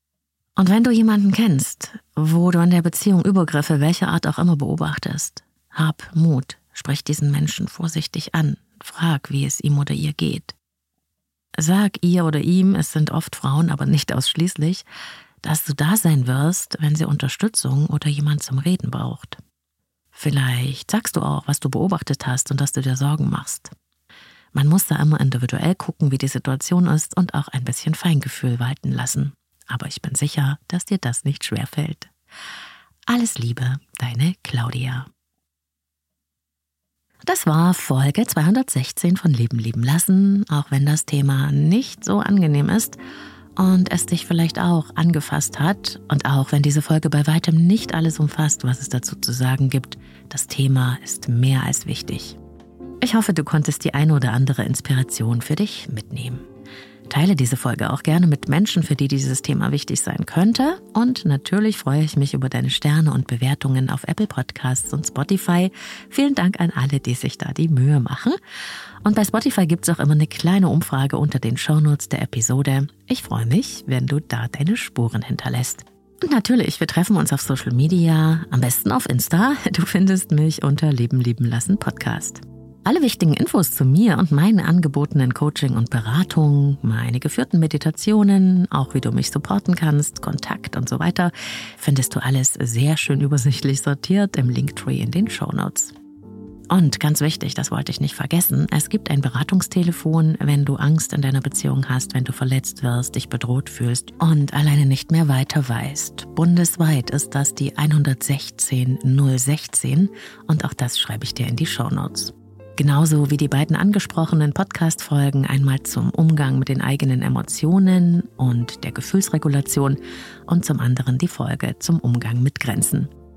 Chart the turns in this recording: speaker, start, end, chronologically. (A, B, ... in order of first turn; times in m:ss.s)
0:00.6-0:10.6 A
0:11.6-0:14.8 A
0:15.4-0:19.4 A
0:20.1-0:23.7 A
0:24.5-0:32.1 A
0:33.1-0:35.1 A
0:37.3-0:43.0 A
0:43.6-0:52.4 A
0:53.0-0:56.4 A
0:57.1-1:08.4 A
1:09.0-1:35.9 A
1:36.7-2:03.1 A